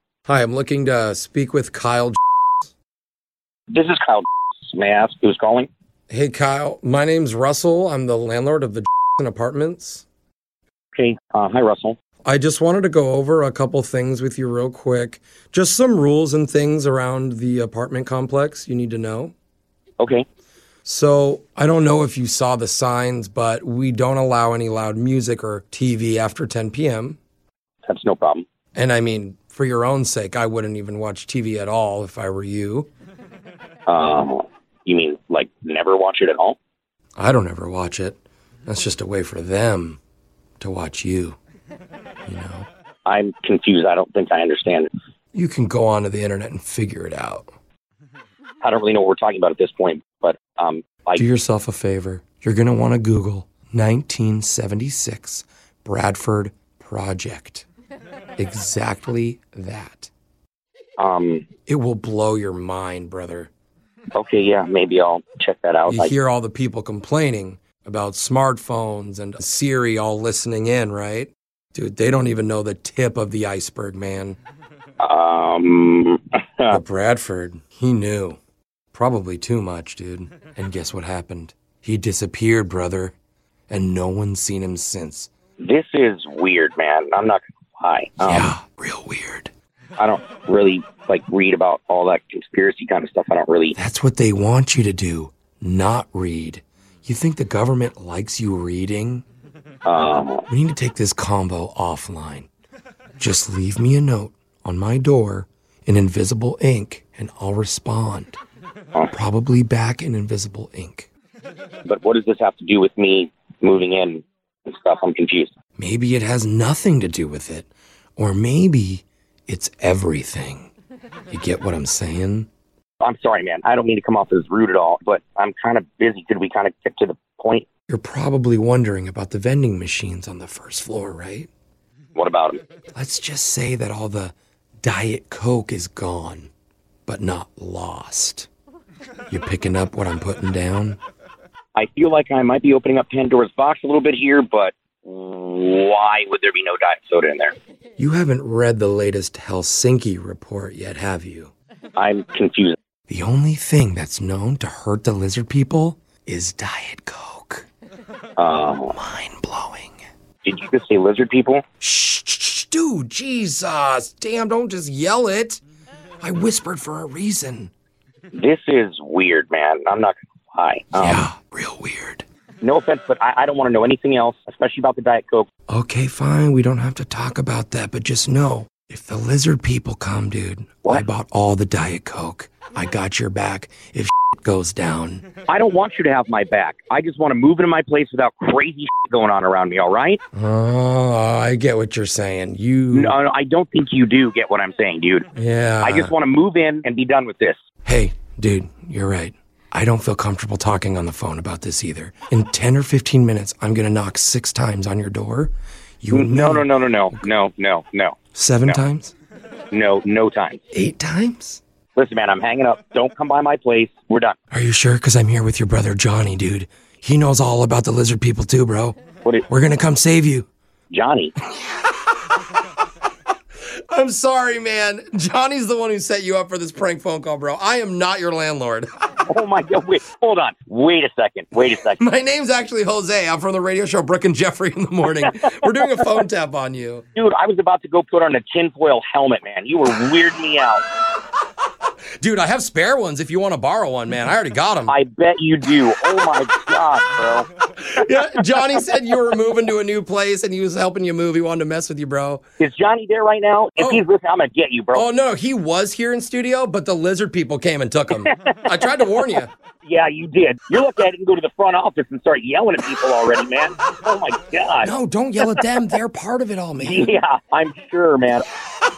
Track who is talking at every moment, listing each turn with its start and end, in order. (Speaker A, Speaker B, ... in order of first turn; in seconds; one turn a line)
Speaker A: 0.3-2.7
Speaker B: 3.7-5.7
Speaker A: 6.1-10.1
Speaker B: 10.9-11.9
Speaker A: 12.2-19.3
Speaker B: 20.0-20.2
Speaker A: 20.8-27.2
Speaker B: 27.9-28.4
Speaker A: 28.7-32.9
Speaker B: 33.9-36.6
Speaker A: 37.2-40.0
Speaker A: 40.6-41.4
Speaker A: 42.3-42.7
Speaker B: 43.0-44.9
Speaker A: 45.3-47.5
Speaker B: 48.6-51.2
Speaker A: 51.1-57.6
Speaker A: 58.4-60.1
Speaker B: 61.0-61.5
Speaker A: 61.7-63.5
Speaker B: 64.1-66.1
Speaker A: 65.9-74.4
Speaker B: 75.0-76.8
Speaker A: 76.7-78.4
Speaker A: 78.9-83.1
Speaker A: 83.7-85.3
Speaker B: 85.6-88.5
Speaker A: 88.2-89.5
Speaker B: 90.0-93.8
Speaker A: 93.8-99.2
Speaker B: 99.8-100.5
Speaker A: 100.5-102.5
Speaker A: 103.2-108.4
Speaker A: 109.1-111.1
Speaker B: 111.8-115.5
Speaker A: 115.8-120.7
Speaker A: 121.3-122.5
Speaker B: 123.0-127.7
Speaker A: 127.9-131.5
Speaker B: 132.2-132.6
Speaker A: 132.9-136.5
Speaker A: 137.1-138.5
Speaker A: 139.3-141.0
Speaker B: 141.8-147.5
Speaker A: 148.0-151.5
Speaker B: 151.9-152.8
Speaker A: 153.1-157.7
Speaker B: 158.4-158.9
Speaker A: 158.8-159.9
Speaker B: 160.4-161.6
Speaker A: 161.8-165.6
Speaker A: 166.2-167.7
Speaker B: 168.3-171.2
Speaker A: 171.0-172.2
Speaker B: 172.6-175.5
Speaker A: 175.7-185.2
Speaker B: 185.5-190.2
Speaker A: 190.3-193.1
Speaker B: 192.9-195.2
Speaker A: 195.3-196.1
Speaker B: 195.8-197.6
Speaker A: 197.8-206.7
Speaker B: 206.1-208.2
Speaker A: 208.3-209.1
Speaker B: 209.7-210.6
Speaker A: 210.7-211.6
Speaker B: 211.9-214.3
Speaker A: 214.5-219.0
Speaker A: 219.5-220.4
Speaker B: 220.9-221.3
Speaker A: 223.9-228.9
Speaker B: 229.3-232.0
Speaker A: 232.0-237.0
Speaker B: 235.0-236.1
Speaker B: 237.1-240.8
Speaker A: 242.2-244.9
Speaker B: 244.9-247.4
Speaker A: 247.8-252.4
Speaker B: 252.6-255.0
Speaker A: 253.8-254.0
Speaker A: 254.9-259.5
Speaker B: 258.3-258.9
Speaker B: 259.8-265.7
Speaker A: 264.8-267.1
Speaker B: 266.8-268.4